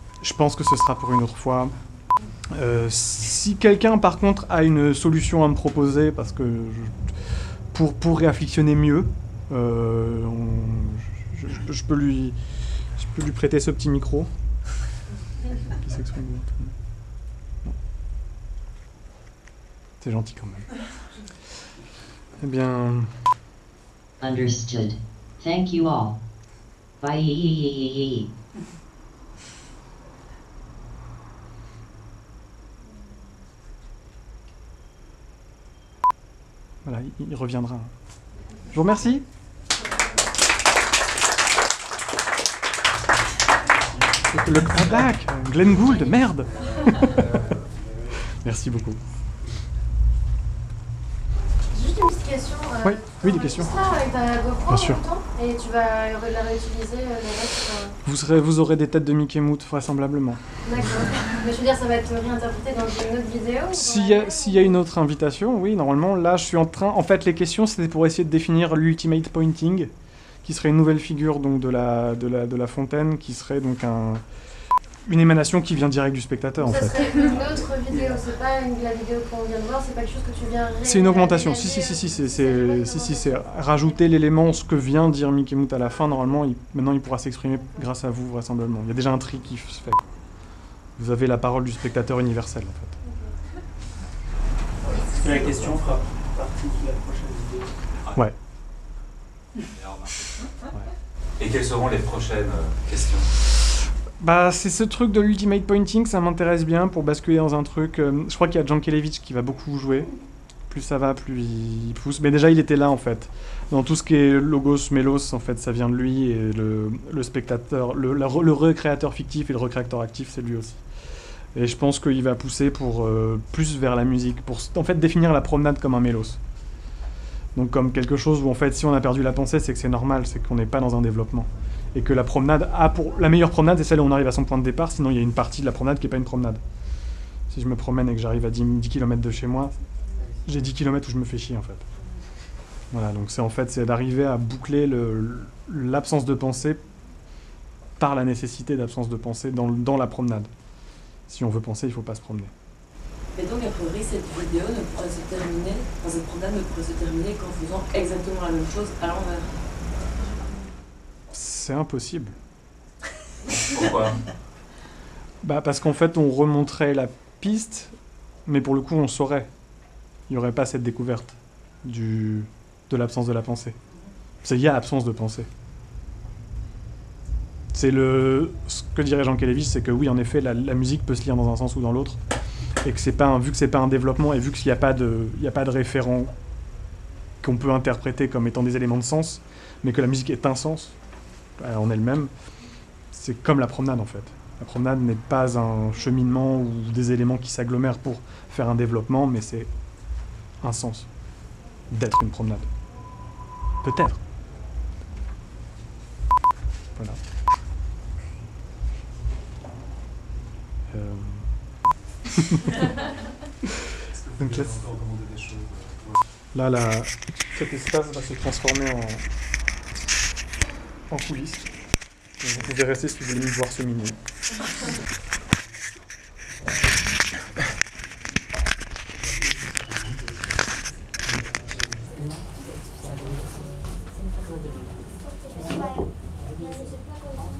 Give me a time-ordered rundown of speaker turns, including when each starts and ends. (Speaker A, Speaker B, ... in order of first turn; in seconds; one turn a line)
Speaker A: 0.2-1.7
Speaker A: 2.5-6.9
Speaker A: 7.7-12.4
Speaker A: 13.0-14.3
Speaker A: 15.7-16.7
Speaker A: 20.0-20.7
Speaker A: 22.4-23.1
Speaker B: 24.2-26.2
Speaker B: 27.0-28.3
Speaker A: 36.8-37.9
Speaker A: 38.7-39.2
Speaker A: 44.3-47.1
Speaker A: 48.4-49.0
Speaker C: 51.7-57.9
Speaker A: 52.8-53.7
Speaker A: 54.7-55.0
Speaker A: 58.0-60.4
Speaker C: 60.6-64.8
Speaker A: 63.7-69.9
Speaker A: 70.4-74.2
Speaker A: 75.1-77.0
Speaker C: 76.6-83.8
Speaker A: 80.8-90.0
Speaker A: 91.0-93.0
Speaker C: 93.0-93.3
Speaker D: 94.8-97.7
Speaker E: 99.7-100.4
Speaker E: 101.4-103.3
Speaker A: 104.2-110.1
Speaker A: 110.7-120.8
Speaker A: 121.5-126.4
Speaker A: 127.5-136.6
Speaker A: 137.5-139.7
Speaker A: 140.4-141.8
Speaker A: 142.9-146.8
Speaker A: 148.0-150.5
Speaker A: 151.3-152.5
Speaker F: 153.3-159.5
Speaker A: 161.3-162.3
Speaker E: 163.5-164.2
Speaker A: 165.4-167.9
Speaker A: 168.4-169.5
Speaker A: 170.3-173.8
Speaker A: 174.4-175.5
Speaker A: 177.7-182.2
Speaker A: 182.8-186.3
Speaker A: 187.4-191.0
Speaker A: 191.6-192.3
Speaker A: 193.1-199.7
Speaker A: 200.6-201.1
Speaker A: 201.9-202.7
Speaker A: 203.8-204.2
Speaker A: 210.9-211.5
Speaker A: 212.3-212.8
Speaker E: 214.1-216.2
Speaker A: 214.4-214.8
Speaker A: 216.5-219.2
Speaker A: 221.1-221.7
Speaker A: 222.4-224.2